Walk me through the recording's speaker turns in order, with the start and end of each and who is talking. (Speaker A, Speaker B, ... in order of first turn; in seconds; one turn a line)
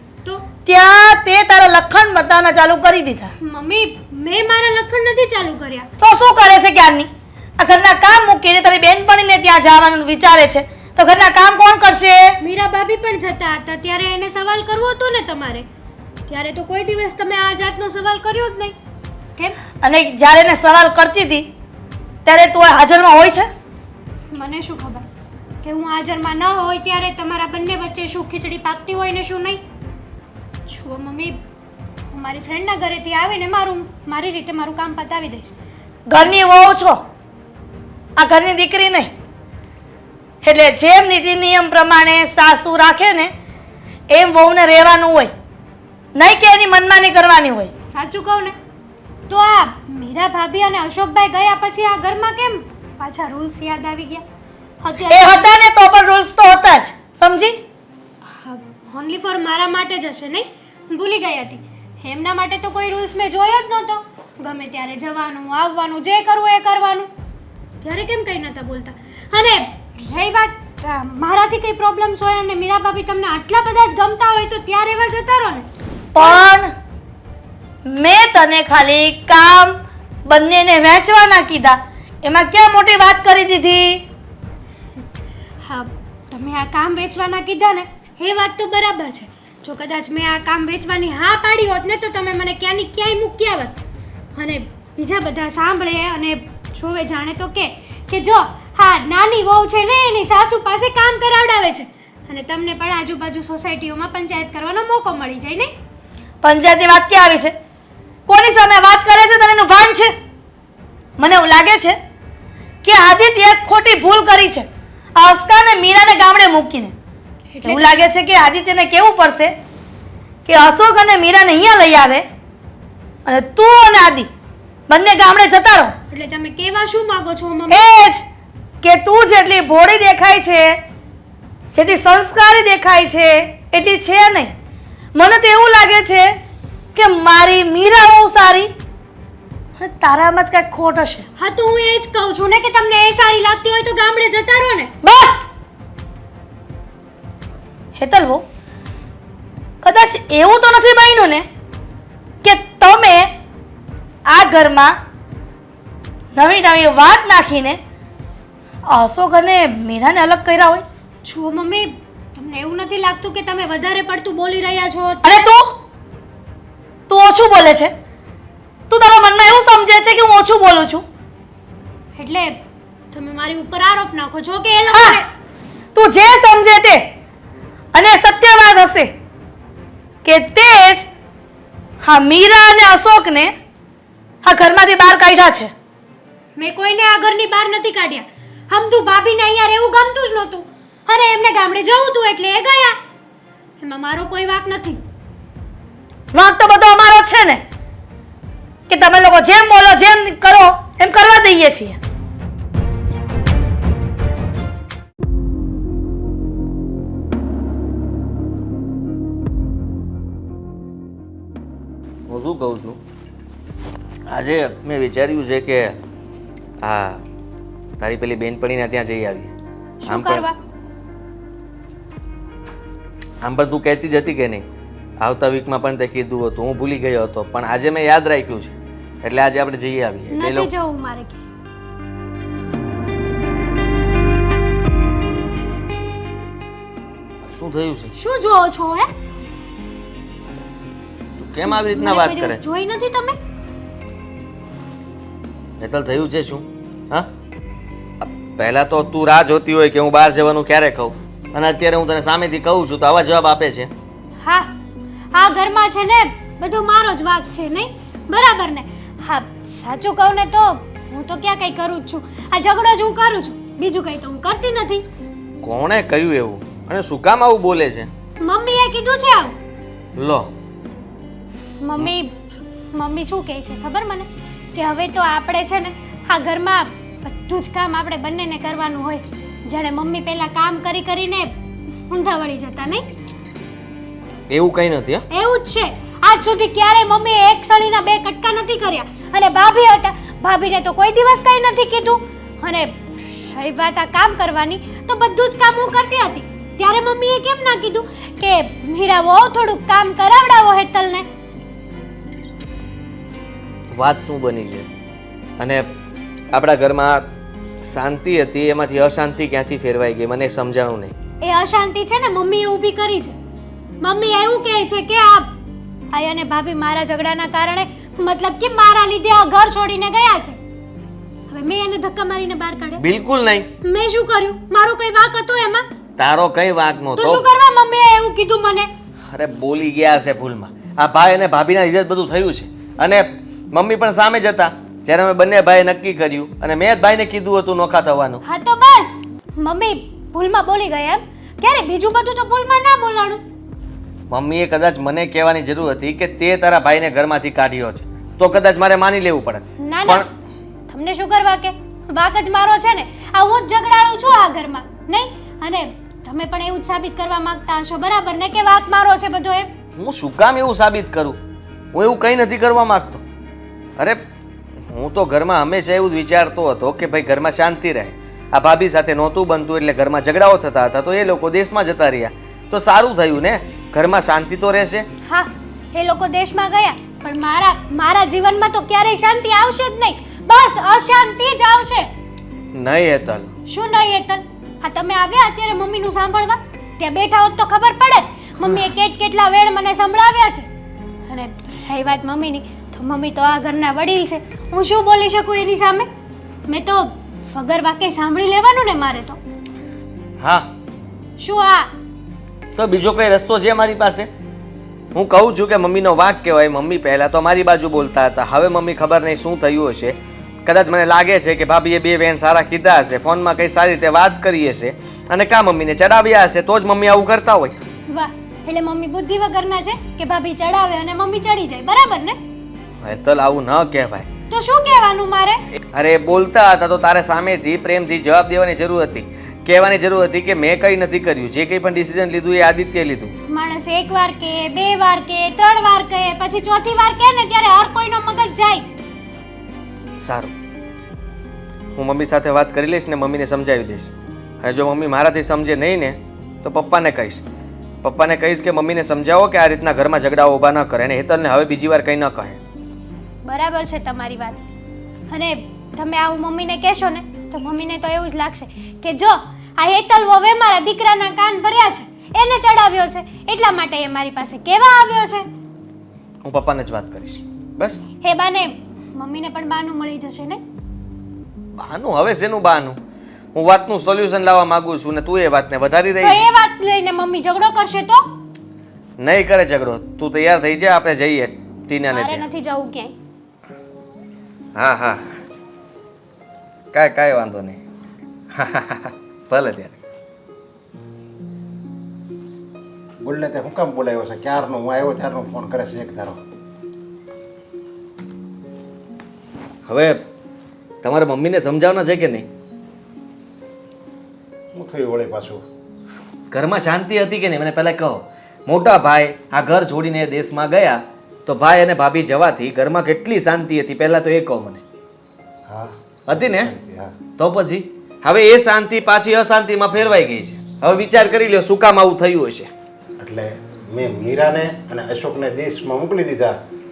Speaker A: 0.7-3.3
Speaker B: 3.4-5.9
Speaker A: 6.0-12.4
Speaker B: 12.4-15.7
Speaker B: 16.3-18.8
Speaker A: 19.8-21.5
Speaker A: 22.2-23.5
Speaker B: 24.3-25.1
Speaker B: 25.6-29.6
Speaker B: 30.7-31.4
Speaker B: 32.1-35.5
Speaker A: 36.1-37.0
Speaker A: 38.2-39.1
Speaker A: 40.4-43.3
Speaker A: 44.1-45.3
Speaker A: 46.1-47.7
Speaker B: 47.9-48.5
Speaker B: 49.3-54.2
Speaker B: 54.8-55.5
Speaker A: 55.1-57.6
Speaker B: 58.4-67.1
Speaker B: 67.8-75.7
Speaker A: 76.1-76.7
Speaker B: 76.2-76.5
Speaker A: 77.9-84.0
Speaker B: 85.6-93.8
Speaker B: 94.3-105.7
Speaker A: 106.4-107.5
Speaker A: 108.3-110.1
Speaker A: 111.2-112.0
Speaker A: 112.8-116.9
Speaker B: 117.5-117.9
Speaker A: 117.6-119.6
Speaker A: 120.5-122.3
Speaker A: 123.2-124.3
Speaker A: 124.9-126.0
Speaker B: 126.1-127.9
Speaker A: 127.7-128.2
Speaker A: 128.8-130.8
Speaker A: 131.7-134.5
Speaker A: 135.1-136.3
Speaker A: 136.9-138.7
Speaker A: 139.8-141.2
Speaker B: 141.4-144.9
Speaker A: 145.0-145.5
Speaker A: 148.0-148.4
Speaker A: 149.8-151.5
Speaker A: 152.4-153.3
Speaker A: 154.3-155.0
Speaker A: 156.3-157.8
Speaker A: 158.9-160.8
Speaker B: 161.2-165.4
Speaker A: 165.2-165.8
Speaker A: 167.1-167.9
Speaker A: 168.9-171.1
Speaker B: 172.2-172.6
Speaker B: 173.1-175.3
Speaker A: 174.9-175.2
Speaker A: 175.9-177.1
Speaker A: 177.9-179.1
Speaker A: 180.2-181.1
Speaker A: 182.0-183.6
Speaker A: 184.4-185.7
Speaker B: 186.6-193.0
Speaker B: 193.8-195.0
Speaker A: 196.3-197.6
Speaker A: 198.9-202.0
Speaker C: 212.3-213.0
Speaker C: 214.3-216.0
Speaker C: 216.8-217.2
Speaker C: 218.0-219.5
Speaker B: 220.0-220.6
Speaker C: 220.1-220.5
Speaker C: 223.4-224.7
Speaker C: 225.2-230.7
Speaker B: 230.3-231.4
Speaker C: 237.5-238.1
Speaker B: 238.2-239.1
Speaker C: 241.4-242.6
Speaker B: 241.7-243.4
Speaker C: 245.8-247.3
Speaker C: 248.2-253.9
Speaker B: 254.4-254.7
Speaker B: 255.3-265.0
Speaker C: 265.6-268.1
Speaker B: 268.4-269.6
Speaker C: 270.2-270.5
Speaker B: 271.8-272.3
Speaker B: 272.9-281.5
Speaker B: 282.1-283.1
Speaker C: 284.5-285.2
Speaker B: 285.3-301.3
Speaker C: 303.9-304.9
Speaker C: 305.6-305.9
Speaker C: 306.5-307.3
Speaker C: 307.9-311.1
Speaker B: 311.4-313.4
Speaker B: 314.0-315.5
Speaker B: 316.1-320.6
Speaker B: 321.5-323.0
Speaker C: 323.0-323.7
Speaker B: 323.8-325.9
Speaker C: 326.2-327.4
Speaker B: 327.2-328.9
Speaker C: 329.3-338.4
Speaker B: 338.4-343.4
Speaker C: 344.3-350.3
Speaker B: 349.8-350.3
Speaker B: 350.9-359.7
Speaker C: 360.0-361.4
Speaker C: 361.9-363.2
Speaker C: 364.9-375.1
Speaker B: 375.2-382.1
Speaker C: 382.7-383.5
Speaker B: 383.7-390.7
Speaker B: 391.3-396.1
Speaker B: 396.7-399.4
Speaker C: 400.4-400.7
Speaker B: 401.4-401.9
Speaker C: 402.8-404.3
Speaker C: 405.1-417.8
Speaker B: 418.1-422.4
Speaker C: 423.0-424.3
Speaker B: 424.5-425.6
Speaker C: 425.9-433.3
Speaker B: 433.5-438.9
Speaker C: 440.2-440.5
Speaker C: 442.0-444.1
Speaker C: 444.6-447.4
Speaker C: 448.0-452.6
Speaker B: 453.4-454.6
Speaker B: 455.3-465.5
Speaker C: 466.4-468.0
Speaker B: 468.2-470.6
Speaker C: 471.8-473.0
Speaker C: 473.6-476.4
Speaker B: 476.2-478.3
Speaker C: 479.2-482.5
Speaker B: 482.1-483.1
Speaker C: 484.8-485.2
Speaker C: 486.9-487.8
Speaker C: 488.6-489.9
Speaker D: 493.2-496.4
Speaker C: 499.9-500.2
Speaker C: 501.0-502.5
Speaker D: 504.8-505.6
Speaker C: 506.5-514.8
Speaker D: 515.7-517.1
Speaker C: 516.3-516.7
Speaker C: 517.4-522.7
Speaker D: 523.2-526.5